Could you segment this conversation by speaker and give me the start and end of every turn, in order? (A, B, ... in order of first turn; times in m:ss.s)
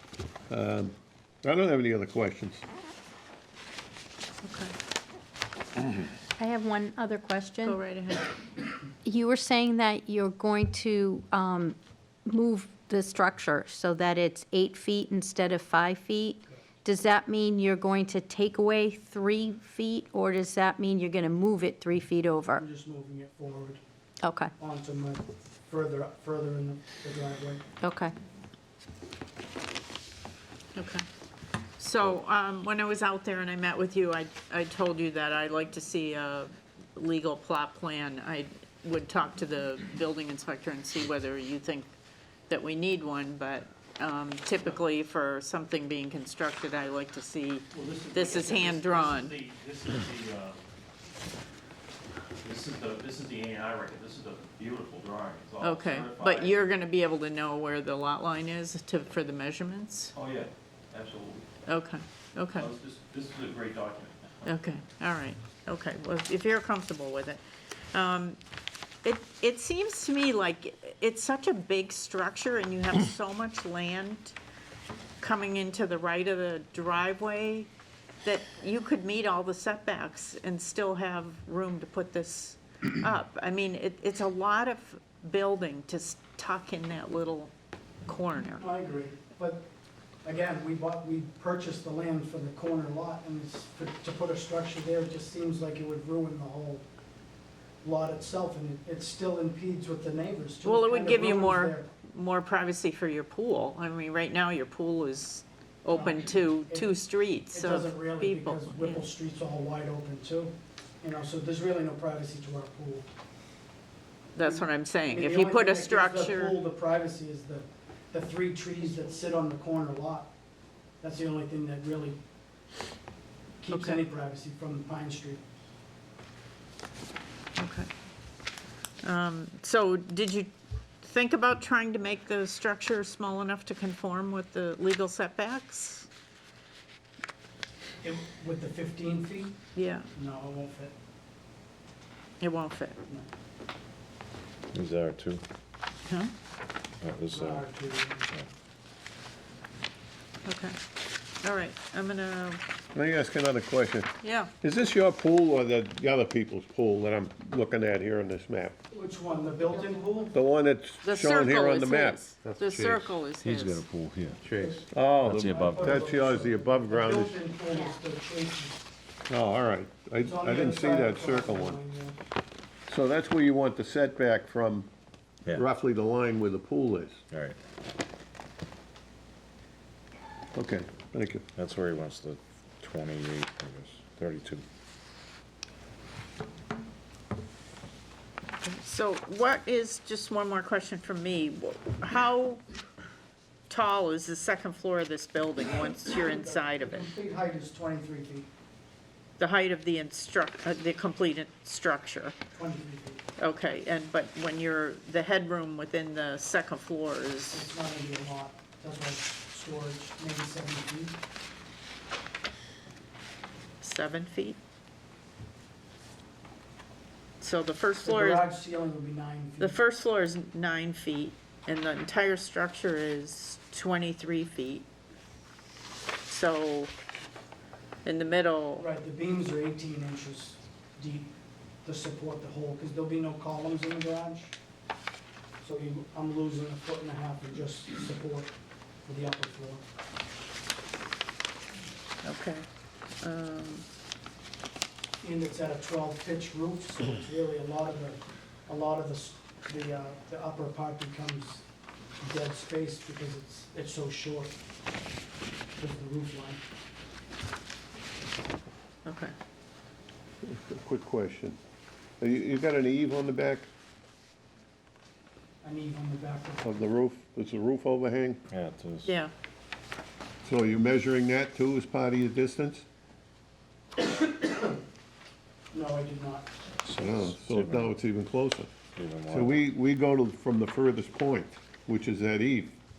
0:00.5-0:02.6 A
0:04.4-0:04.7 B
0:06.4-0:07.8 C
0:07.6-0:08.4 B
0:09.0-0:22.6 C
0:22.6-0:23.8 D
0:24.2-0:24.5 C
0:24.6-0:27.6 D
0:27.8-0:28.1 C
0:30.7-0:31.0 B
0:31.8-0:41.9 B
0:42.5-0:49.4 B
0:47.7-0:50.6 E
0:52.4-0:56.6 E
0:55.6-1:00.1 B
1:00.1-1:01.4 E
1:01.6-1:02.7 B
1:02.6-1:04.3 E
1:04.4-1:07.4 B
1:07.9-1:08.4 B
1:09.0-1:14.3 B
1:15.2-1:17.7 B
1:18.2-1:27.5 B
1:28.0-1:28.7 B
1:28.6-1:29.7 D
1:30.2-1:36.8 D
1:37.8-1:41.9 D
1:40.6-1:49.0 B
1:45.9-1:46.9 D
1:47.5-1:53.0 D
1:54.4-1:56.6 B
1:54.4-2:00.3 D
2:01.0-2:02.2 D
2:03.6-2:05.4 D
2:03.7-2:04.0 B
2:07.6-2:07.9 B
2:09.0-2:16.1 B
2:18.0-2:19.6 D
2:19.7-2:20.1 B
2:20.1-2:20.9 D
2:22.4-2:23.0 B
2:24.7-2:25.4 F
2:26.0-2:26.3 B
2:27.0-2:27.7 F
2:27.3-2:28.3 D
2:30.4-2:30.8 B
2:31.4-2:32.6 B
2:32.9-2:38.8 A
2:34.2-2:34.5 B
2:38.9-2:40.3 D
2:40.3-2:43.1 A
2:41.0-2:43.9 B
2:43.4-2:46.5 F
2:44.9-2:47.4 A
2:45.4-2:48.8 D
2:49.3-2:51.8 A
2:50.2-2:52.2 D
2:52.9-2:54.9 A
2:55.5-2:57.2 A
2:57.3-2:57.6 F
3:00.5-3:01.4 A
3:01.6-3:04.6 F
3:08.6-3:12.6 B
3:13.7-3:17.1 B
3:16.0-3:18.5 D
3:19.4-3:22.3 B
3:22.5-3:23.2 D
3:23.4-3:27.7 B
3:27.5-3:31.1 D
3:33.8-3:34.6 B
3:37.4-3:38.5 B
3:38.0-3:39.8 D
3:39.6-3:44.8 B
3:46.3-3:46.9 B
3:48.0-3:48.9 B
3:48.8-3:51.3 D
3:51.8-3:54.5 D
3:55.6-3:58.5 D
3:59.0-3:59.8 D
4:02.2-4:02.6 B
4:03.2-4:03.8 B
4:05.2-4:11.6 D
4:12.2-4:14.5 D
4:15.8-4:16.6 D
4:19.0-4:19.3 B
4:20.4-4:21.6 A
4:22.2-4:23.7 A
4:25.6-4:26.8 D
4:26.6-4:28.4 A
4:28.5-4:29.1 F
4:29.0-4:29.3 B
4:30.4-4:32.8 A
4:34.0-4:34.8 D
4:35.7-4:36.5 D
4:36.8-4:38.0 F
4:37.0-4:38.7 A
4:38.9-4:39.6 F
4:39.3-4:42.8 A